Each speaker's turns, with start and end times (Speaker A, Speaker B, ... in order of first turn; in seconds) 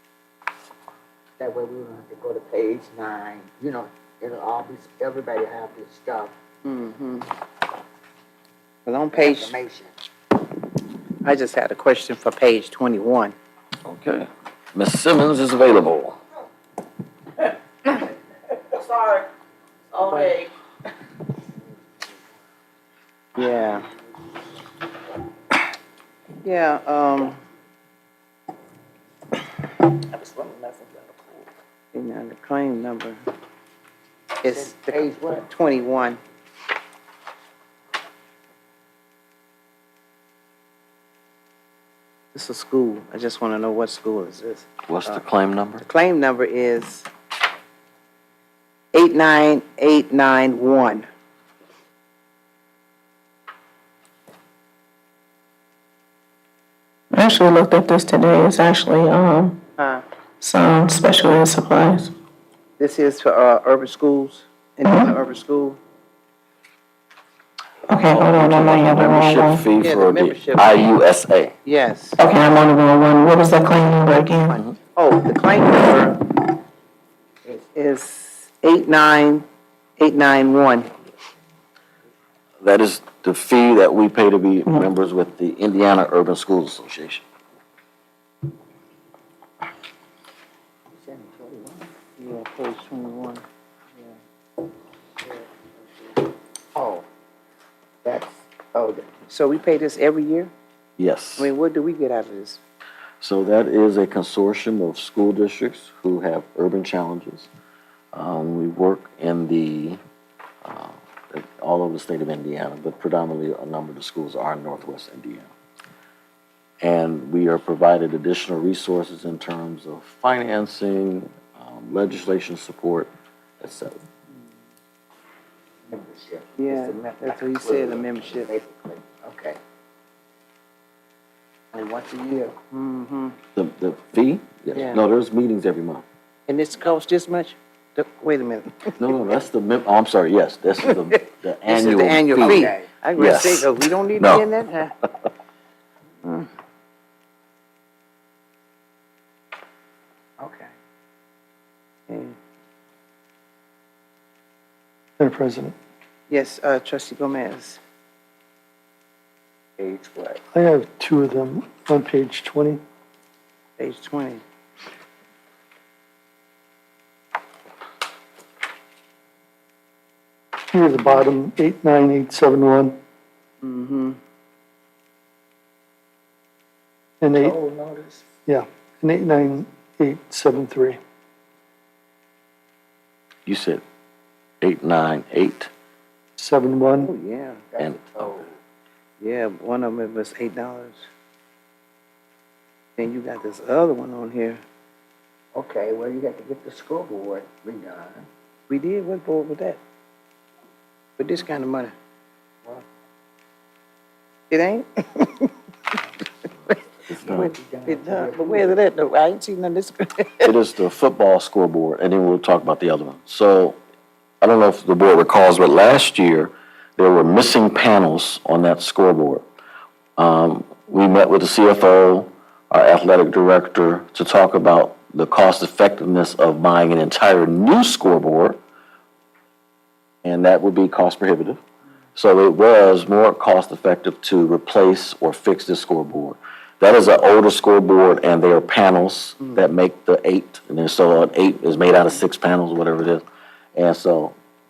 Speaker A: 1.4-6.3, 9.1-9.9, 34.5-35.5, 91.0-91.9, 96.8-97.0, 98.0-99.1, 125.9-129.6, 131.7-132.6, 142.4-142.9, 150.4-150.7, 159.8-160.4, 177.3-178.2, 187.7-188.5, 195.5-198.2, 207.2-208.8
Speaker B: 6.7-7.3, 8.9-9.6, 11.2-13.3, 18.7-19.2, 19.9-20.5, 23.4-23.9, 26.4-27.4, 30.2-30.8, 31.9-33.2, 34.4-36.2, 42.3-45.2, 45.8-47.1, 48.9-51.1, 59.8-60.0, 62.8-65.8, 69.8-70.9, 71.7-72.2, 74.5-76.6, 77.7-79.5, 80.0-80.9, 92.2-93.4, 99.3-100.5, 101.4-102.6, 126.6-128.5, 132.7-133.4, 134.7-135.0, 136.5-138.9, 141.7-144.9, 146.2-146.5, 152.1-152.4, 156.3-157.8, 163.8-164.4, 173.6-174.2, 187.0-187.6, 189.2-191.1, 193.0-194.6, 198.7-199.8, 201.2-201.9, 204.5-205.5, 207.3-210.5
Speaker C: 13.8-16.2, 44.9-45.9, 67.9-71.5, 82.6-87.2, 101.0-101.5, 103.2-107.5, 108.1-110.0, 110.6-115.5, 116.8-124.0, 133.6-136.1, 139.0-144.5, 183.5-183.8, 184.6-185.7, 187.8-188.4, 207.1-207.6, 210.4-213.8, 214.4-219.4, 220.2-228.6, 230.2-231.6, 232.2-243.2, 243.8-244.3
Speaker D: 57.1-59.6, 60.4-62.1, 64.8-65.2, 67.9-69.7, 72.2-74.6
Speaker E: 155.2-155.8, 160.5-162.8, 170.7-173.0, 177.2-177.6, 178.5-181.0, 186.4-187.1